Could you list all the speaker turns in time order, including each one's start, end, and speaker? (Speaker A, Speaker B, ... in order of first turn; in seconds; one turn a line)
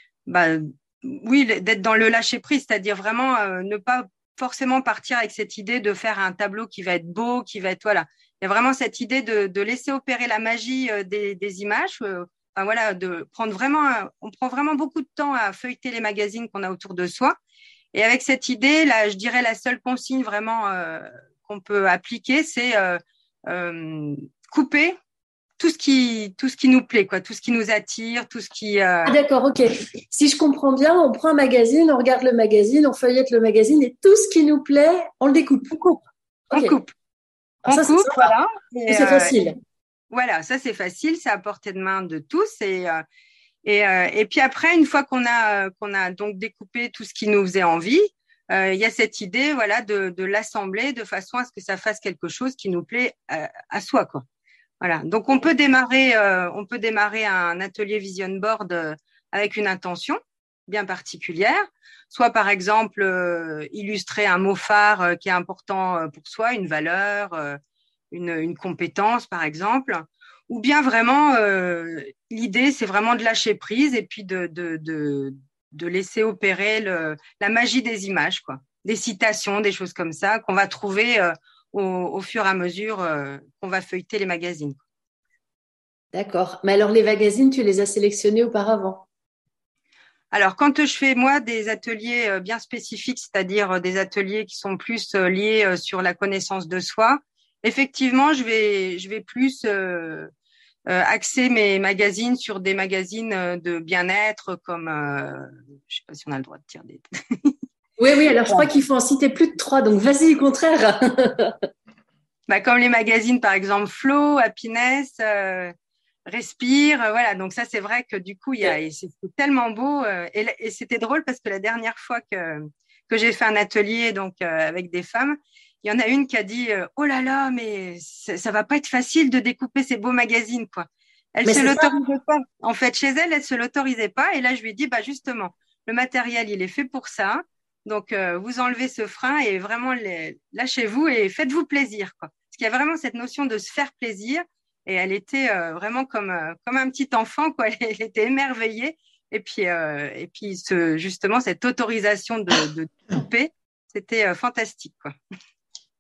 Speaker A: 0.3-17.4
Speaker A: 17.9-25.0
Speaker A: 25.6-29.2
Speaker B: 29.1-36.0
Speaker B: 36.5-36.8
Speaker A: 36.5-36.9
Speaker A: 37.6-39.3
Speaker B: 37.7-38.3
Speaker B: 38.9-39.6
Speaker A: 40.1-43.0
Speaker A: 43.6-54.2
Speaker A: 54.8-67.6
Speaker A: 68.1-84.8
Speaker B: 86.1-89.1
Speaker A: 90.3-100.3
Speaker A: 100.9-107.5
Speaker B: 108.0-111.5
Speaker A: 112.5-115.7
Speaker A: 116.2-155.1
Speaker B: 131.5-131.8